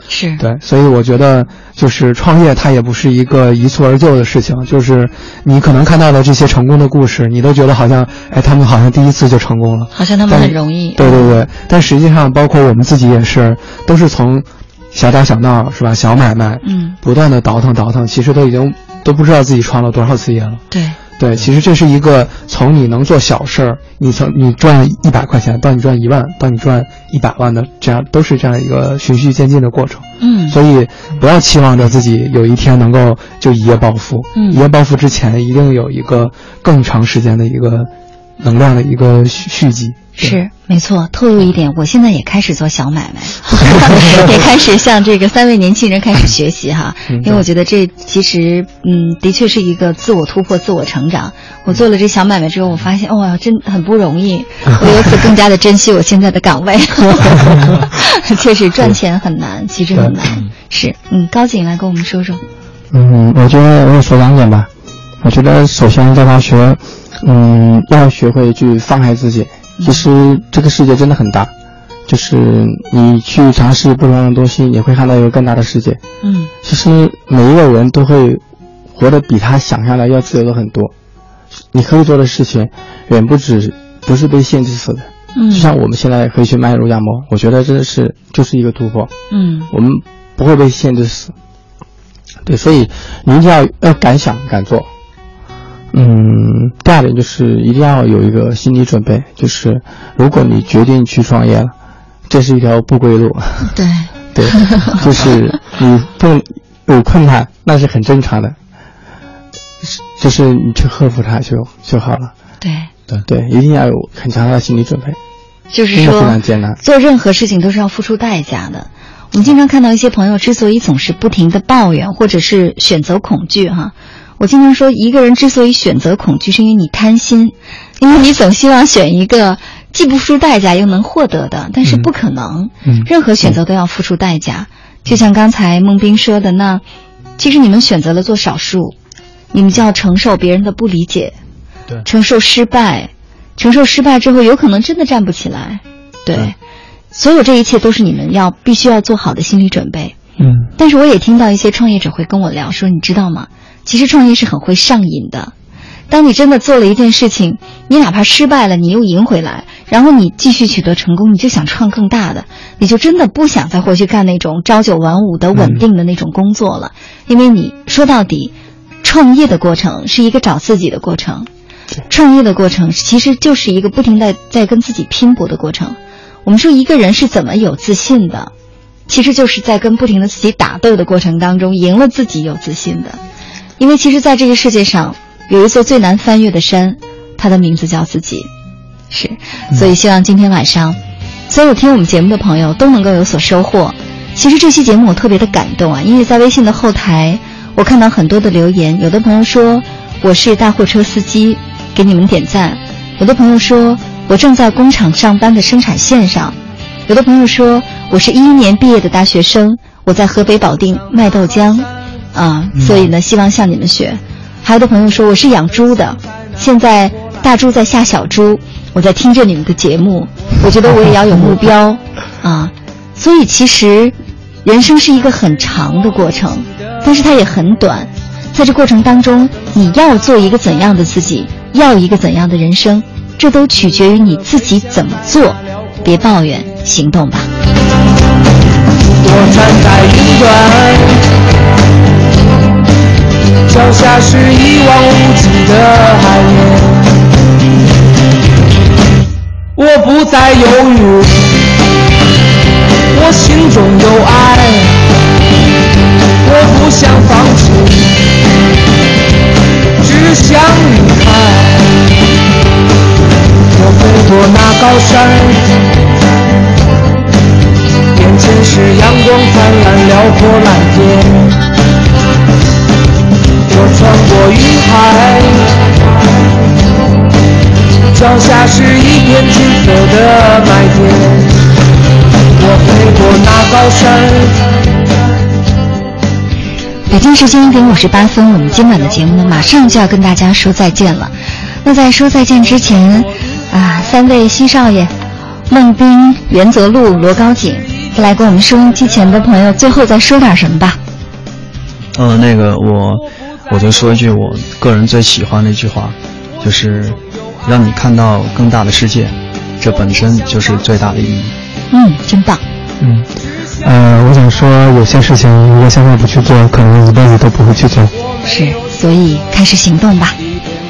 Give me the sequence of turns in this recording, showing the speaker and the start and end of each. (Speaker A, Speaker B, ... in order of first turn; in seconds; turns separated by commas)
Speaker A: 0.1-0.4, Speaker B: 0.4-20.6, Speaker A: 9.9-11.2, Speaker A: 16.6-17.0, Speaker A: 20.7-21.0, Speaker B: 21.2-40.4, Speaker A: 30.2-30.6, Speaker A: 34.3-34.6, Speaker A: 40.2-62.4, Speaker B: 47.1-47.4, Speaker C: 62.9-64.7, Speaker C: 65.2-71.5, Speaker A: 69.8-70.0, Speaker C: 72.1-76.0, Speaker A: 76.2-76.5, Speaker C: 76.6-78.4, Speaker C: 78.9-80.9, Speaker C: 81.7-89.1, Speaker A: 85.3-85.7, Speaker A: 89.3-89.7, Speaker C: 89.7-91.3, Speaker C: 92.4-94.9, Speaker C: 95.9-101.7, Speaker C: 102.3-103.7, Speaker A: 103.7-105.0, Speaker C: 104.3-108.5, Speaker C: 110.0-112.3, Speaker A: 112.6-112.9, Speaker C: 113.2-115.2, Speaker A: 115.7-136.8, Speaker C: 116.0-116.7, Speaker B: 131.8-132.1, Speaker B: 132.8-133.5, Speaker A: 137.4-138.9, Speaker A: 139.5-141.3, Speaker A: 142.1-146.5, Speaker A: 147.1-150.2, Speaker B: 150.4-150.7, Speaker A: 150.8-155.5, Speaker A: 156.1-171.5, Speaker B: 165.5-165.8, Speaker A: 172.1-178.5, Speaker A: 179.1-183.2, Speaker A: 183.8-188.5, Speaker A: 189.1-191.0, Speaker A: 191.5-206.6, Speaker A: 207.1-224.1, Speaker A: 224.6-237.5, Speaker D: 239.2-241.3, Speaker D: 243.6-247.1, Speaker D: 249.8-251.5, Speaker D: 253.1-255.1, Speaker D: 256.4-258.2, Speaker D: 260.0-262.1, Speaker D: 263.7-265.9, Speaker D: 268.1-271.6, Speaker D: 273.6-275.9, Speaker D: 278.1-281.7, Speaker D: 282.5-284.7, Speaker A: 287.1-295.1, Speaker A: 295.7-301.0, Speaker E: 302.1-311.6, Speaker A: 311.9-312.6, Speaker C: 313.8-318.1, Speaker A: 318.4-320.4